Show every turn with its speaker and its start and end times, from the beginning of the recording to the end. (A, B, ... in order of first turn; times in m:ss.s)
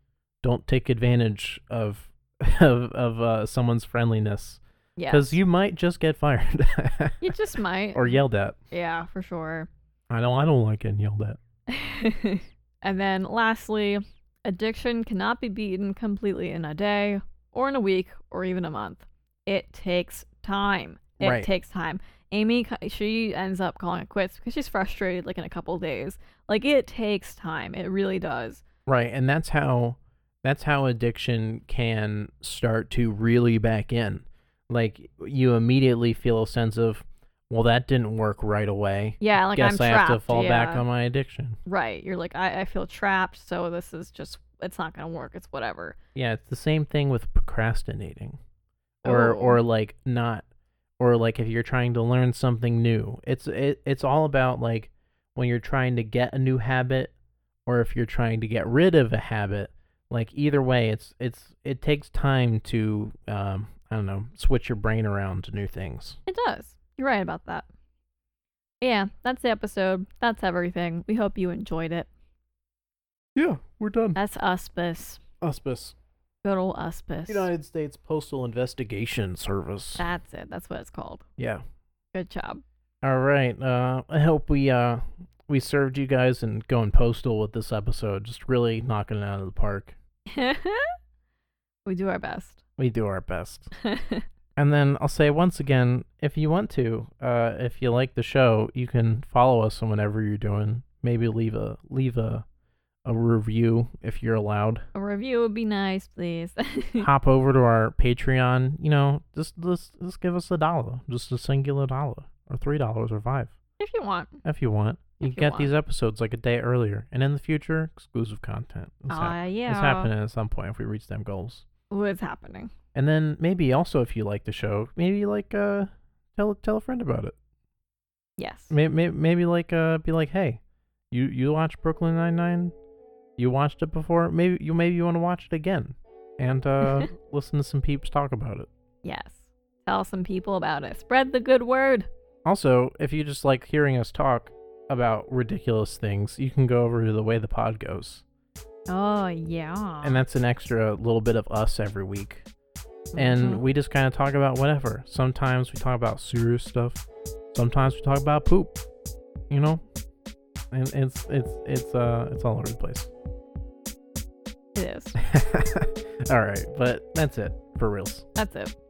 0:00.4-0:07.2 A
0:05.0-0:05.4 B
0:07.2-0:09.7 B
0:07.9-0:08.6 A
0:10.1-0:11.4 A
0:11.7-0:28.6 B
0:21.2-0:21.5 A
0:28.9-0:41.6 A
0:39.2-0:40.8 B
0:41.6-0:46.0 B
0:46.1-0:48.4 A
0:49.0-0:49.6 B
0:49.0-0:50.4 A
0:51.0-0:57.1 A
0:57.6-1:06.2 A
1:06.3-1:07.7 B
1:08.8-1:12.1 B
1:13.3-1:14.2 A
1:14.2-1:15.2 B
1:15.4-1:15.9 A
1:16.4-1:17.5 B
1:17.3-1:20.0 A
1:20.0-1:21.2 B
1:22.1-1:22.6 B
1:23.0-1:30.0 A
1:30.3-1:30.9 B
1:31.8-1:32.6 B
1:32.8-1:33.7 A
1:33.8-1:34.2 B
1:34.6-1:42.4 A
1:43.0-1:44.8 A
1:44.9-1:47.1 B
1:47.0-1:53.5 A
1:53.8-1:54.4 B
1:54.4-2:01.6 A
1:55.2-1:55.7 B
1:59.1-2:00.1 B
2:01.9-2:02.7 B
2:02.9-2:07.4 A
2:08.4-2:08.7 B
2:08.7-2:10.6 A
2:11.1-2:12.7 A
2:13.4-2:18.7 A
2:19.0-2:22.1 B
2:22.4-2:28.2 A
2:28.9-2:30.2 B
2:30.0-2:32.4 A
2:33.1-2:33.6 B
2:33.1-2:38.8 A
2:39.5-2:39.8 A
2:40.7-2:43.1 A
2:44.7-2:45.2 B
2:45.2-2:48.3 A
2:48.4-2:48.7 B